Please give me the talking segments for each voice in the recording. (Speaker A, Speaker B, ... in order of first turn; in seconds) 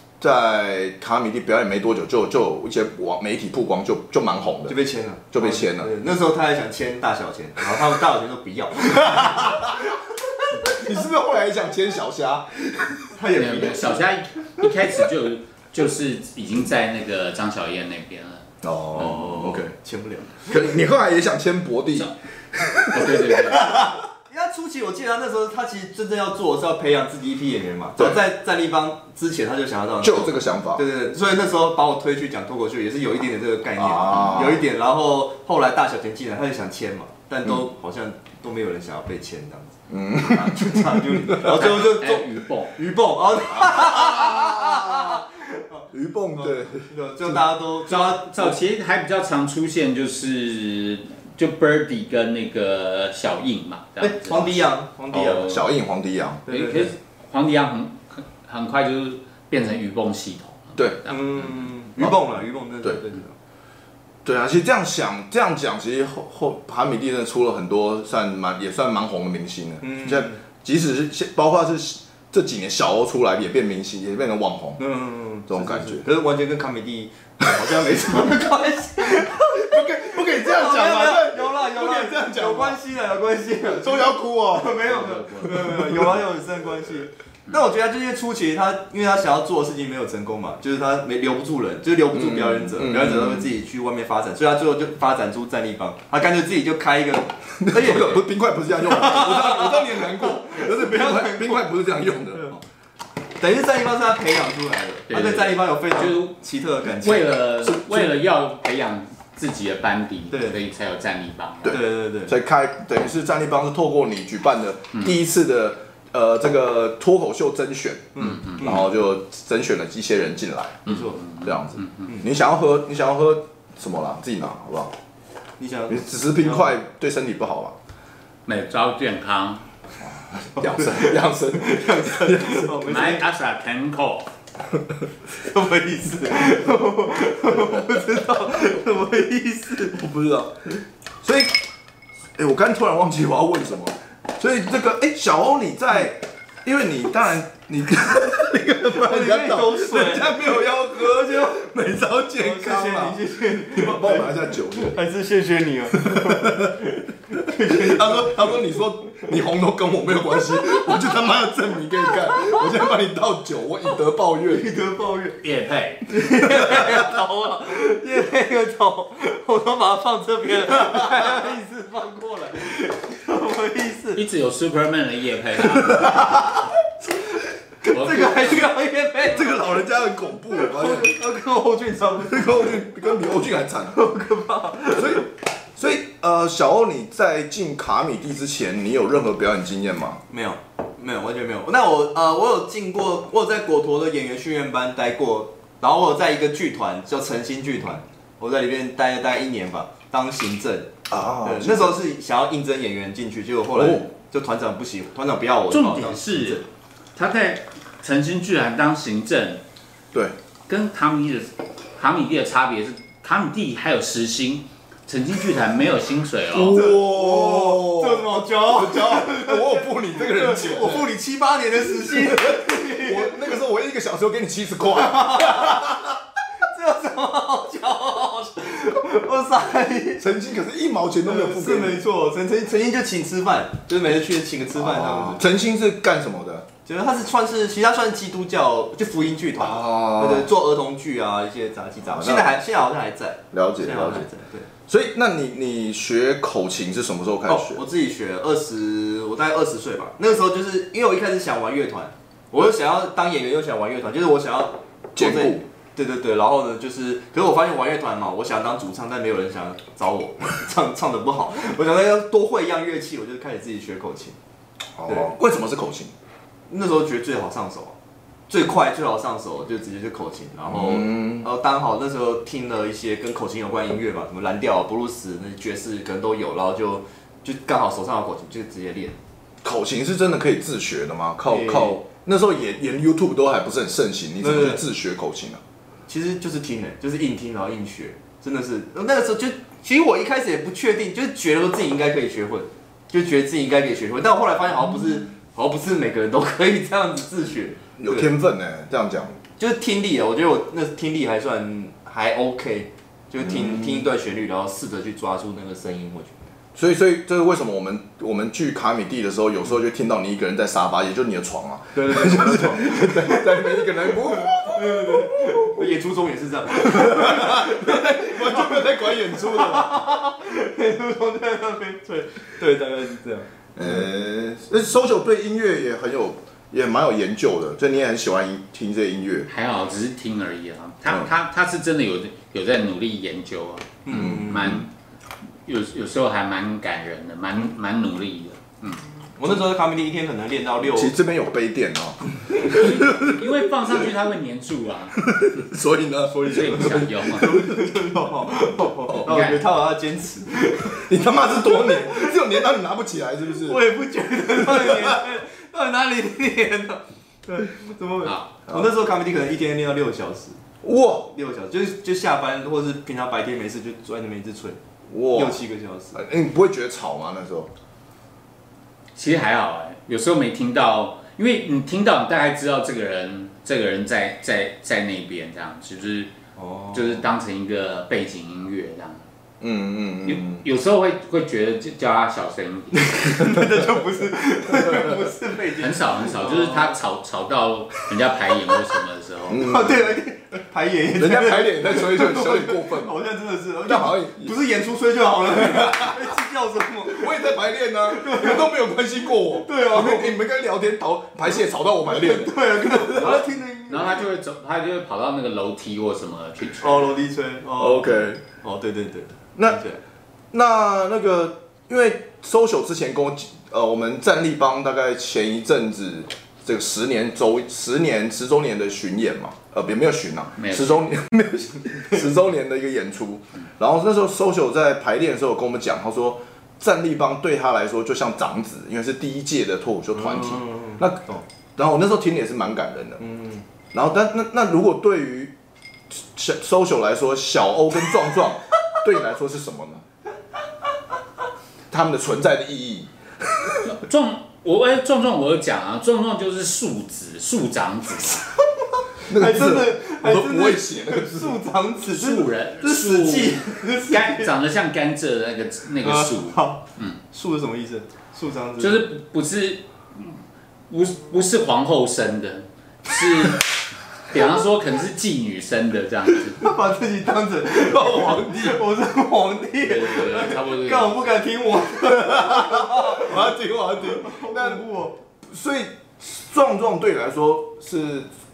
Speaker A: 0.2-4.8, 5.3-5.9, 9.0-9.9, 10.6-13.0, 18.6-19.7, 20.5-24.0, 28.0-28.2, 30.0-30.8, 33.8-34.6, 39.9-41.7, 43.5-45.2, 45.9-47.4, 55.2-56.4, 60.8-61.0, 64.2-74.8, 75.5-76.0, 79.5-82.8, 83.8-84.8, 85.5-86.0, 92.1-93.5, 97.6-102.6, 107.6-108.1, 111.6-120.8, 121.4-124.9, 125.9-127.7, 130.0-132.8, 140.0-140.5, 141.2-141.6, 142.4-153.2, 153.7-155.0, 155.9-156.8, 157.3-164.7, 166.5-167.2, 179.2-181.1, 182.2-184.0, 184.9-190.2, 201.1-202.0, 203.7-204.1, 216.5-221.1, 222.0-226.2, 230.2-232.0, 234.8-236.7, 239.6-240.5, 242.1-242.5, 243.5-244.2, 244.9-247.8, 255.2-255.6, 264.9-266.1, 270.7-271.5, 279.6-285.6, 298.0-299.4, 303.4-304.1, 306.7-315.9, 316.7-320.0, 323.8-329.5, 334.1-334.8, 340.8-343.5, 345.2-347.7, 349.0-349.3, 350.9-353.8, 354.6-355.2, 360.8-361.3, 365.1-365.6, 366.1-367.7, 379.6-380.6, 383.3-383.7, 384.7-385.3, 389.5-390.1, 391.2-393.1, 393.8-394.6, 395.5-396.3, 397.1-403.4, 407.8-408.4, 410.5-431.2, 431.8-433.2, 433.9-435.5, 436.1-440.0, 441.9-443.1, 449.3-451.6, 467.8-468.8, 472.1-474.8, 475.4-478.3
Speaker B: 4.7-10.8, 13.1-14.0, 18.9-20.6, 23.9-39.8, 40.3-48.6, 54.0-55.7, 56.5-56.9, 61.1-63.3, 69.8-70.4, 74.8-98.2, 98.8-101.7, 103.4-107.5, 110.3-110.6, 111.7-112.4, 118.1-118.9, 120.8-121.2, 125.6-126.7, 130.6-133.3, 135.3-140.0, 148.9-151.6, 152.3-159.3, 160.5-160.8, 164.4-165.4, 166.1-174.2, 175.9-176.5, 177.8-179.9, 180.5-182.8, 183.9-185.2, 190.3-200.9, 201.4-206.6, 216.7-223.4, 224.9-225.9, 226.6-230.2, 231.2-235.4, 236.8-244.7, 247.5-264.4, 266.7-267.9, 268.5-279.2, 281.5-282.0, 284.4-284.8, 286.1-298.3, 299.6-306.4, 311.9-323.9, 334.0-334.8, 339.4-341.1, 346.3-352.4, 353.6-360.6, 361.3-364.8, 365.3-366.2, 376.6-377.2, 383.2-387.0, 389.6-398.7, 399.4-400.4, 402.1-404.2, 406.8-410.0, 430.1-431.4, 433.2-433.6, 449.3-454.5, 456.0-459.1, 466.5-475.1
Speaker C: 13.3-18.4, 22.9-23.7, 41.4-42.8, 47.9-55.5, 56.5-61.2, 84.8-85.8, 105.1-106.3, 106.9-111.8, 118.2-118.6, 120.8-122.1, 128.5-129.6, 132.8-134.3, 165.4-166.1, 174.1-176.4, 177.9-178.7, 205.7-206.6, 207.2-209.6, 210.7-216.8, 329.5-334.9, 335.6-339.0, 342.6-345.2, 346.4-347.6, 349.2-349.6, 358.2-358.5, 369.1-376.3, 376.9-379.2, 380.2-383.1, 385.8-389.7, 403.2-407.2, 420.6-421.0, 443.8-448.4, 452.1-457.2, 458.8-463.6, 464.3-466.6, 469.8-471.3